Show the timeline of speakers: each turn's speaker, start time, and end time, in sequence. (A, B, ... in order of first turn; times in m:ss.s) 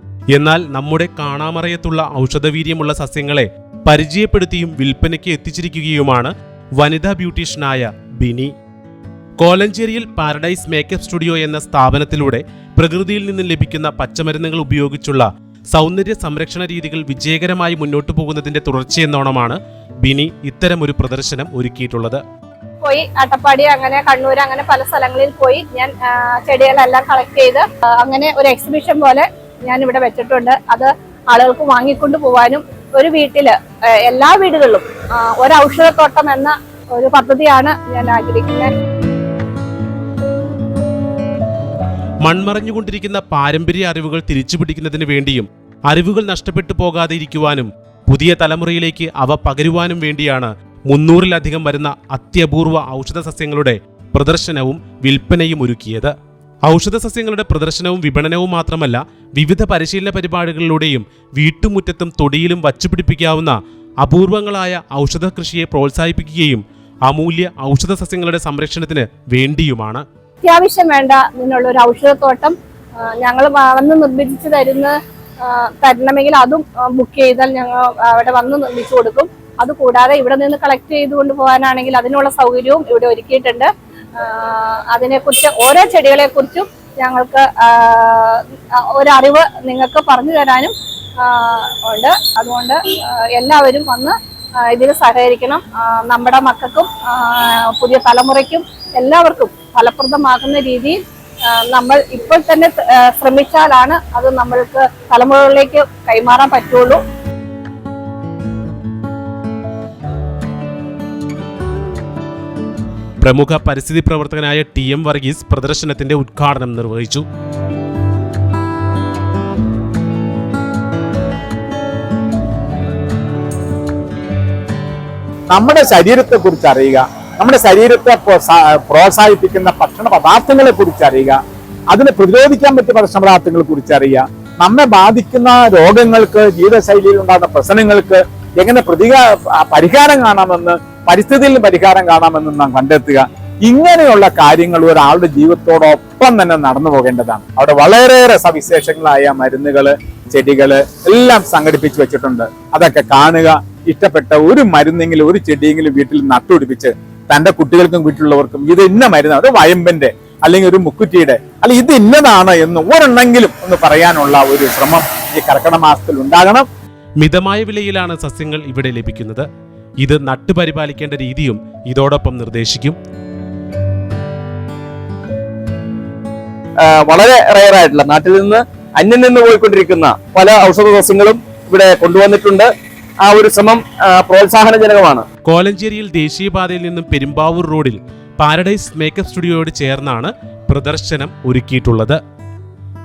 0:00.3-0:08.5 A
0:09.4-0:22.2 A
0:22.8-0:38.7 B
0:42.2-0:56.1 A
0:56.7-1:10.0 A
1:10.4-1:12.6 B
1:13.2-1:47.0 B
1:53.2-1:57.2 A
2:05.5-2:11.4 C
2:11.9-2:46.7 C
2:47.2-2:49.5 A
2:50.0-2:53.0 A
2:56.8-3:02.7 D
3:03.2-3:05.3 D
3:05.4-3:12.2 A